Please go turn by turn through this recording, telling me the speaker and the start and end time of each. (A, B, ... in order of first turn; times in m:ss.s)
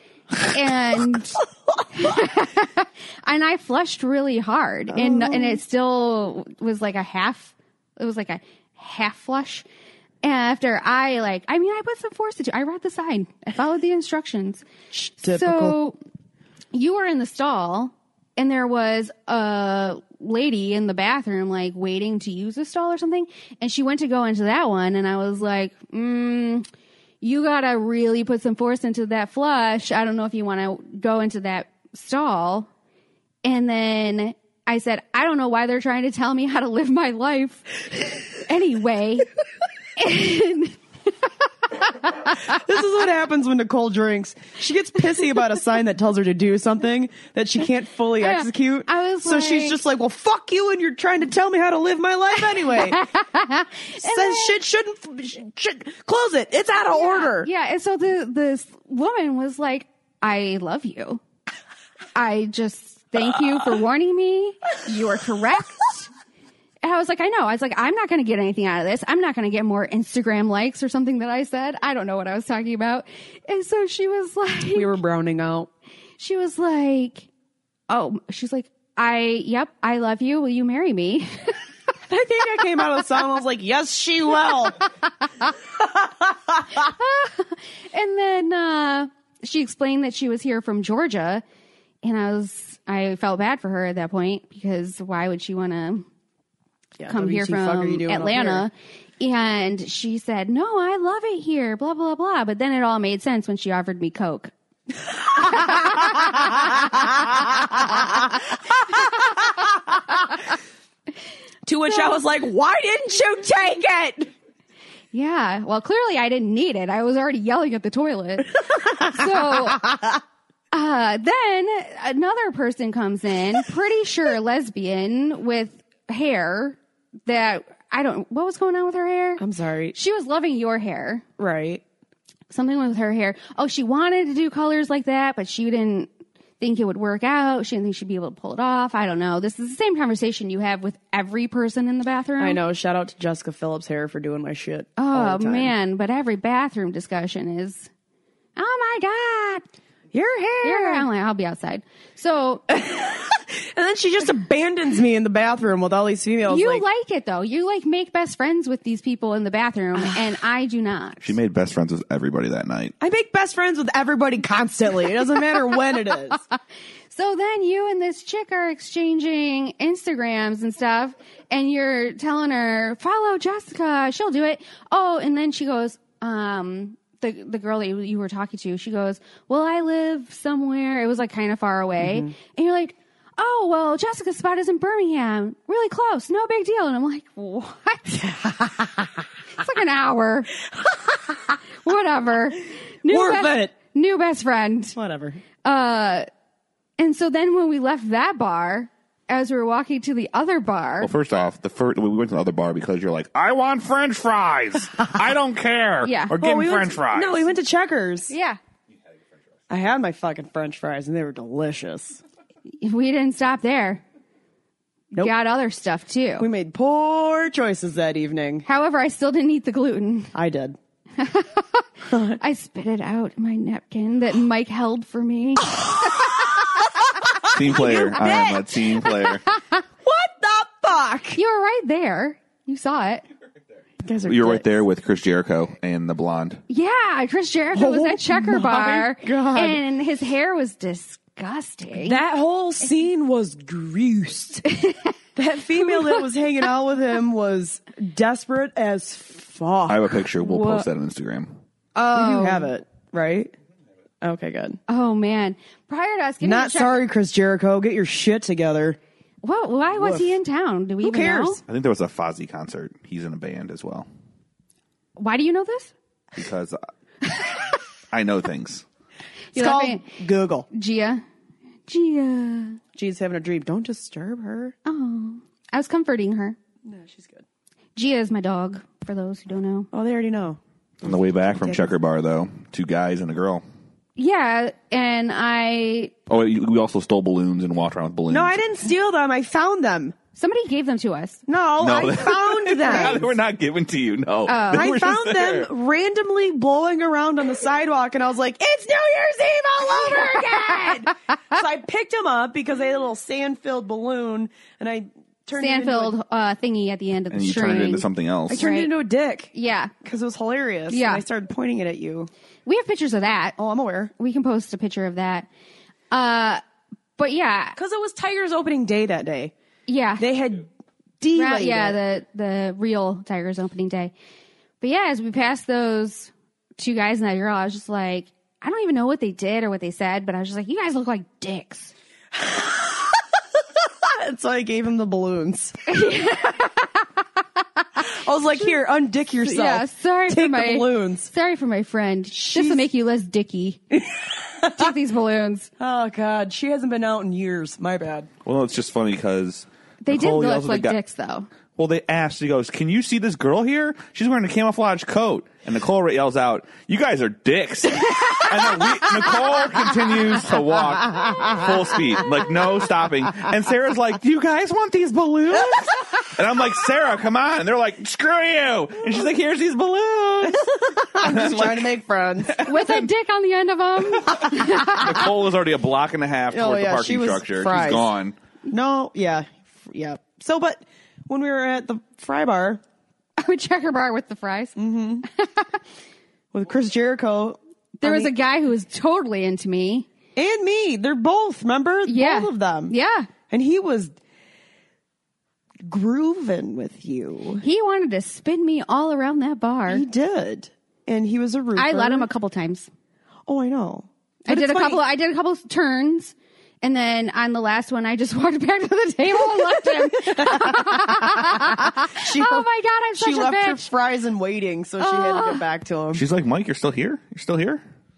0:00.4-0:09.6 A
0:04.9-0:05.6 B
0:10.2-0:14.6 A
0:14.9-0:15.8 B
0:15.2-0:16.0 A
0:16.7-0:26.7 A
0:27.2-0:32.7 A
0:33.4-0:37.7 A
0:38.3-0:39.3 A
0:40.0-0:40.8 A
0:42.3-0:53.0 B
0:48.2-0:49.8 A
0:52.7-0:54.6 A
0:54.0-0:57.5 B
0:56.9-1:01.2 A
1:02.1-1:06.1 A
1:06.8-1:15.0 A
1:14.7-1:15.7 B
1:16.2-1:17.3 A
1:17.9-1:21.6 A
1:22.1-1:24.8 B
1:25.8-1:26.2 B
1:26.8-1:31.4 A
1:32.0-1:36.0 A
1:37.0-1:38.7 B
1:37.1-1:44.5 A
1:45.3-1:46.5 A
1:45.4-1:49.9 B
1:51.6-1:54.3 B
1:55.1-1:59.9 A
1:59.6-2:00.0 B
2:00.7-2:09.4 A
2:09.4-2:09.9 B
2:09.9-2:11.2 A
2:11.4-2:11.8 B
2:12.5-2:16.1 A
2:16.6-2:22.6 A
2:22.4-2:25.7 B
2:25.0-2:27.9 A
2:28.6-2:29.6 A
2:30.1-2:31.1 B
2:30.6-2:32.6 A
2:32.7-2:36.8 B
2:36.5-2:41.4 A
2:41.2-2:42.9 C
2:43.0-2:46.4 B
2:47.1-3:08.2 A
3:02.0-3:02.3 B
3:08.1-3:09.1 B
3:09.5-3:10.5 A
3:10.9-3:11.4 B
3:11.8-3:15.0 A
3:13.1-3:13.7 B
3:14.9-3:15.4 B
3:15.6-3:16.3 A
3:17.0-3:21.1 A
3:21.0-3:27.5 C
3:26.0-3:26.4 A
3:26.3-3:28.3 B
3:28.3-3:28.6 A
3:29.7-3:32.2 B
3:32.8-3:34.0 A
3:35.2-3:36.5 A
3:36.4-3:38.6 B
3:38.6-3:40.3 A
3:40.3-3:40.8 B
3:41.2-3:46.5 A
3:42.1-3:42.4 B
3:47.4-3:49.4 C
3:47.5-3:48.5 B
3:47.7-3:49.8 A
3:50.0-3:51.4 B
3:51.3-3:53.2 A
3:54.0-3:54.8 B
3:54.2-3:56.6 C
3:56.7-4:02.2 A
3:57.7-3:59.8 B
4:02.0-4:04.6 B
4:04.7-4:05.1 A
4:05.4-4:10.9 B
4:05.8-4:06.2 A
4:09.9-4:11.5 C
4:11.9-4:12.7 A
4:12.1-4:13.5 B
4:14.2-4:14.8 B
4:14.9-4:17.0 A
4:16.4-4:19.0 B
4:19.4-4:21.6 A
4:20.0-4:20.3 B
4:21.0-4:21.6 B
4:21.7-4:24.1 C
4:25.2-4:25.9 A
4:26.3-4:26.8 C
4:28.1-4:28.8 C
4:29.5-4:30.0 A
4:29.5-4:30.7 B
4:30.7-4:31.2 A
4:31.9-4:32.8 A
4:32.9-4:34.8 B
4:34.8-4:36.6 A
4:36.8-4:37.4 B
4:38.0-4:39.9 A
4:39.9-4:40.6 B
4:41.0-4:43.6 C
4:41.4-4:41.9 B
4:44.2-4:46.1 A
4:46.3-4:48.6 C
4:48.3-4:50.1 B
4:50.4-4:51.4 A
4:51.4-4:53.4 B
4:51.8-4:55.7 C
4:54.5-4:54.9 A
4:54.7-5:06.1 B
5:00.2-5:00.9 A
5:05.5-5:08.9 A
5:07.3-5:08.6 C
5:08.5-5:09.5 B
5:09.5-5:09.9 A
5:10.0-5:12.3 B
5:10.9-5:11.2 A
5:12.6-5:13.6 A
5:13.6-5:14.1 B
5:14.2-5:15.5 A
5:16.1-5:16.6 A
5:17.2-5:17.8 A
5:17.8-5:19.5 B
5:19.9-5:20.2 A
5:20.2-5:20.7 B
5:21.2-5:22.0 B
5:21.3-5:24.1 A
5:24.8-5:31.9 A
5:32.3-5:35.8 B
5:35.9-5:37.1 A
5:38.0-5:41.3 B
5:39.4-5:43.8 A
5:42.3-5:42.9 B
5:43.9-5:44.9 B
5:44.7-5:45.7 A
5:45.8-5:48.3 B
5:48.4-5:51.0 C
5:50.0-5:51.5 A
5:51.7-6:11.8 C
6:10.4-6:12.7 B
6:12.5-6:13.0 C
6:12.6-6:15.2 A
6:14.7-6:18.3 C
6:16.5-6:18.1 B
6:18.7-6:22.8 B
6:23.4-6:25.8 A
6:24.8-6:25.3 B
6:26.5-6:28.3 B
6:28.0-6:30.1 A
6:30.4-6:32.9 B
6:32.0-6:33.3 A
6:33.5-6:34.2 B
6:35.8-6:37.6 B
6:37.6-6:40.0 A
6:39.9-6:42.3 B
6:41.7-6:42.9 A
6:43.5-6:45.0 B
6:44.4-6:53.8 A
6:49.6-6:56.2 B
6:55.0-6:55.6 A
6:56.1-6:57.8 C